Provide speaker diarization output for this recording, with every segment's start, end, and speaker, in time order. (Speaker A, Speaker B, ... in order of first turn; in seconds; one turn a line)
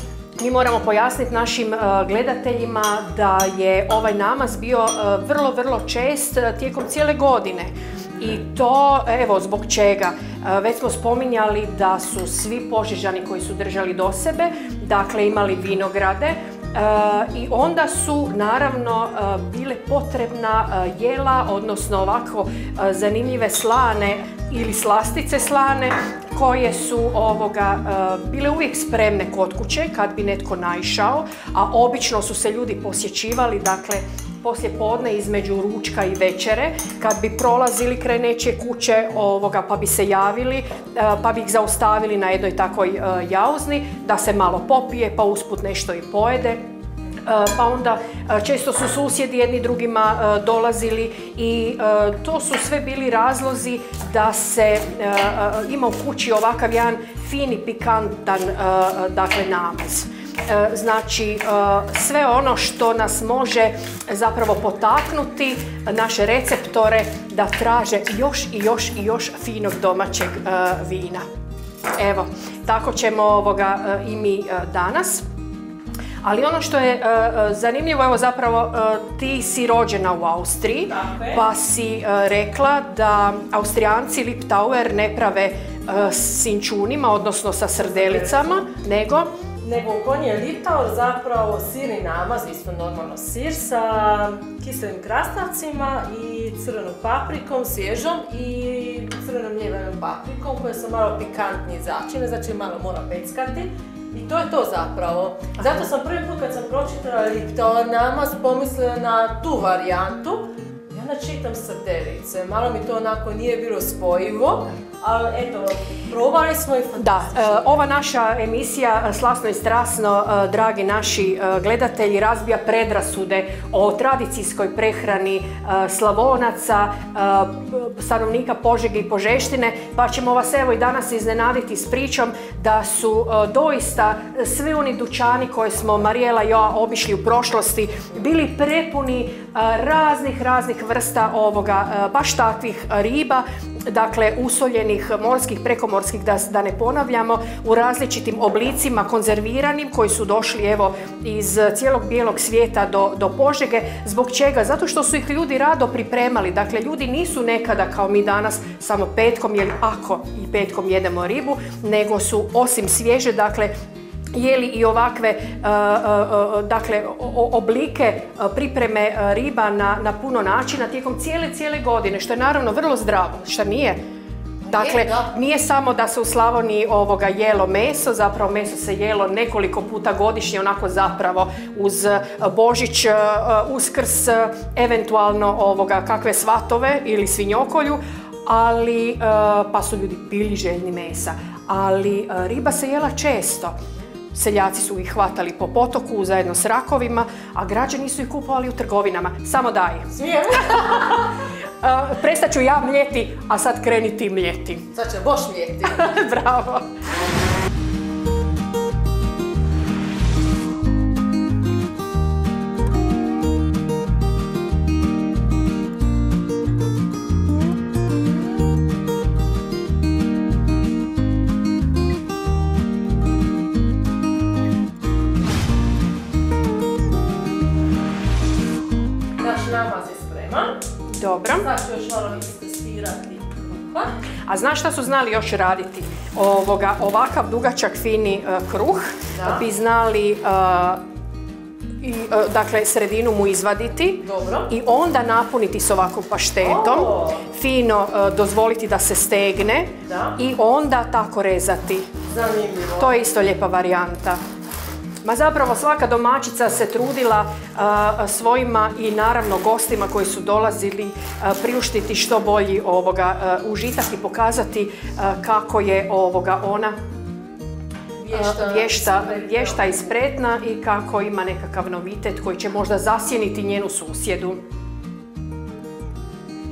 Speaker A: 0.4-46.6
Speaker A: 47.2-71.2
Speaker A: 72.0-75.2
Speaker A: 76.2-89.3
Speaker B: 80.9-81.4
Speaker B: 87.8-88.7
Speaker B: 89.6-117.7
Speaker A: 117.0-163.7
Speaker A: 164.3-174.0
Speaker B: 174.7-175.3
Speaker A: 174.7-193.7
Speaker A: 194.3-200.1
Speaker B: 200.1-201.2
Speaker A: 200.7-201.2
Speaker A: 201.8-204.9
Speaker B: 204.9-206.1
Speaker A: 205.8-206.9
Speaker B: 229.4-230.8
Speaker A: 231.1-231.7
Speaker B: 231.5-234.1
Speaker A: 234.5-241.0
Speaker B: 239.3-239.6
Speaker A: 242.0-252.1
Speaker B: 244.2-244.7
Speaker B: 246.6-247.4
Speaker B: 250.1-250.4
Speaker B: 252.3-253.1
Speaker A: 253.0-254.4
Speaker A: 255.2-266.9
Speaker B: 268.2-270.0
Speaker A: 268.3-274.6